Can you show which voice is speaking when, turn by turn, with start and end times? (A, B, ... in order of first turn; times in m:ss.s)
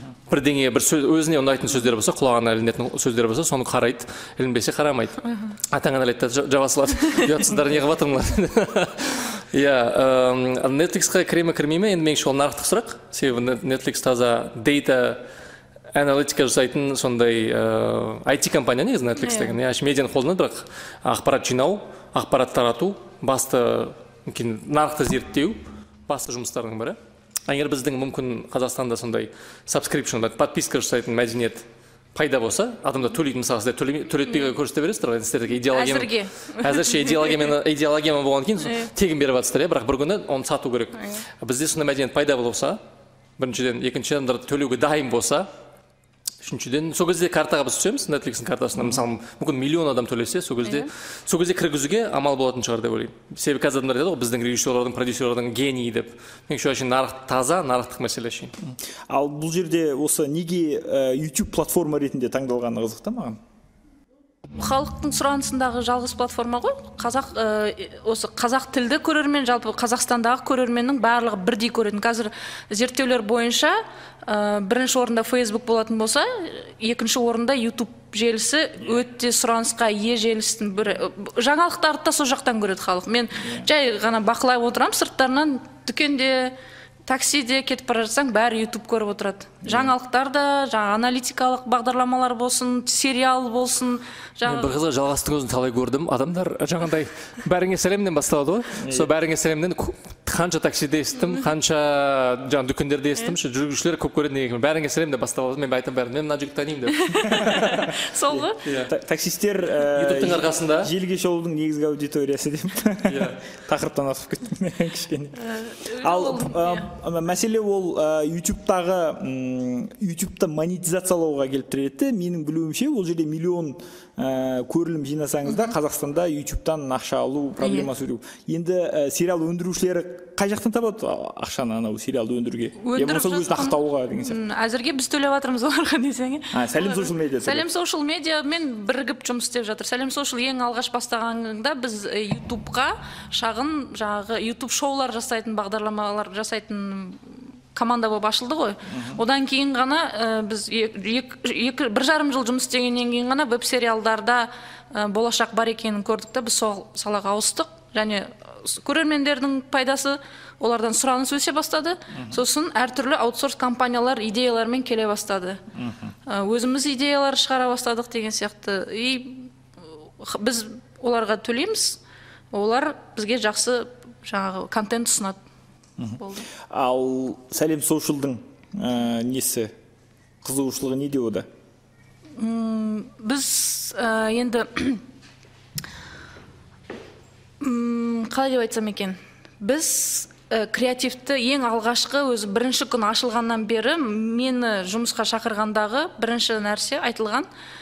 0:00.3-0:15.2 A
0:15.9-0:42.8 A
0:19.2-0:19.6 B
0:35.7-0:37.4 B
0:38.6-0:38.9 B
0:43.4-0:45.5 A
0:46.4-0:58.5 A
0:58.6-1:03.4 C
1:04.6-1:26.6 B
1:23.4-1:23.7 C
1:27.1-1:34.7 B
1:34.4-1:47.5 A
1:38.8-1:39.1 C
1:47.0-1:48.6 B
1:47.3-1:55.4 C
1:48.6-1:48.9 A
1:49.8-1:50.9 A
1:53.1-1:53.4 A
1:55.4-1:56.9 B
1:56.0-2:14.4 C
2:07.6-2:07.9 B
2:12.8-2:45.6 B
2:16.5-2:17.6 C
2:28.9-2:29.2 C
2:42.1-2:42.4 C
2:45.7-2:46.1 C
2:46.3-2:49.5 B
2:50.2-2:52.0 B
2:52.5-2:55.4 B
2:56.0-2:59.7 C
2:56.2-2:56.4 B
3:00.4-3:01.5 C
3:02.4-3:05.0 B
3:07.6-3:17.5 B